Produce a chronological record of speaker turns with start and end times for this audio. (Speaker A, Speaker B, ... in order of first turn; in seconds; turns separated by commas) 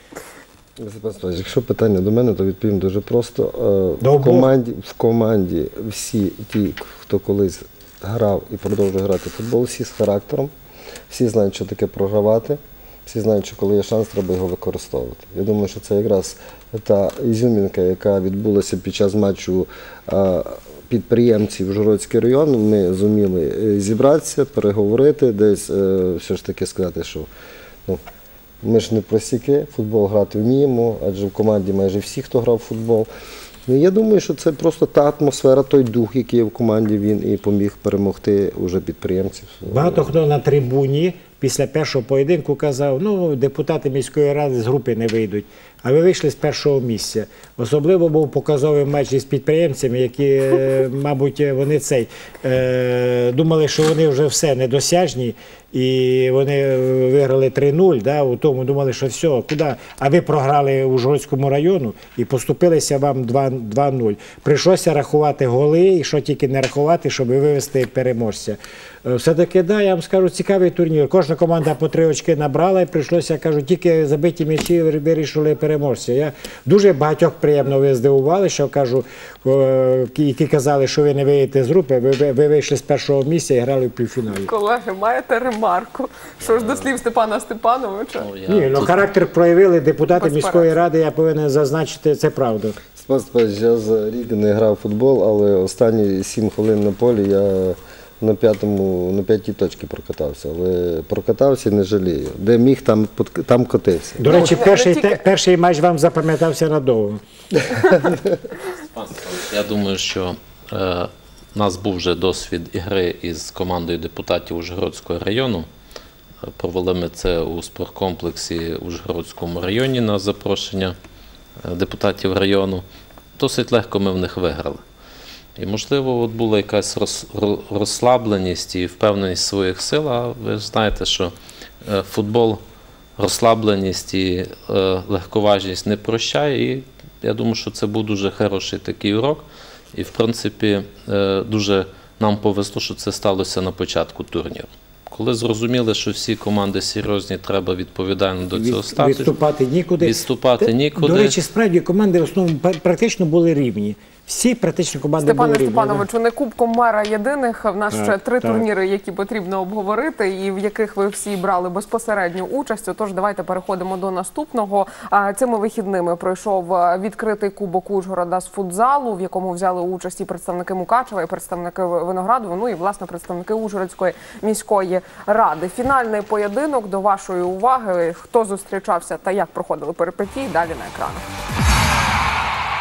Speaker A: 0.8-10.5, Speaker B: 4.0-4.5, Speaker A: 11.1-27.3, Speaker A: 28.6-33.1, Speaker A: 33.7-40.1, Speaker B: 39.7-84.5, Speaker C: 84.4-88.3, Speaker D: 86.4-86.9, Speaker D: 88.2-89.1, Speaker B: 88.5-92.8, Speaker C: 90.1-90.7, Speaker A: 92.9-104.2, Speaker B: 104.2-107.2, Speaker C: 104.3-105.2, Speaker D: 108.8-115.7, Speaker D: 116.4-121.0, Speaker D: 121.6-122.8, Speaker D: 123.4-124.8, Speaker D: 125.6-132.6, Speaker D: 133.2-149.4, Speaker B: 148.5-156.1, Speaker D: 150.0-151.4, Speaker C: 155.2-181.3, Speaker B: 157.9-158.7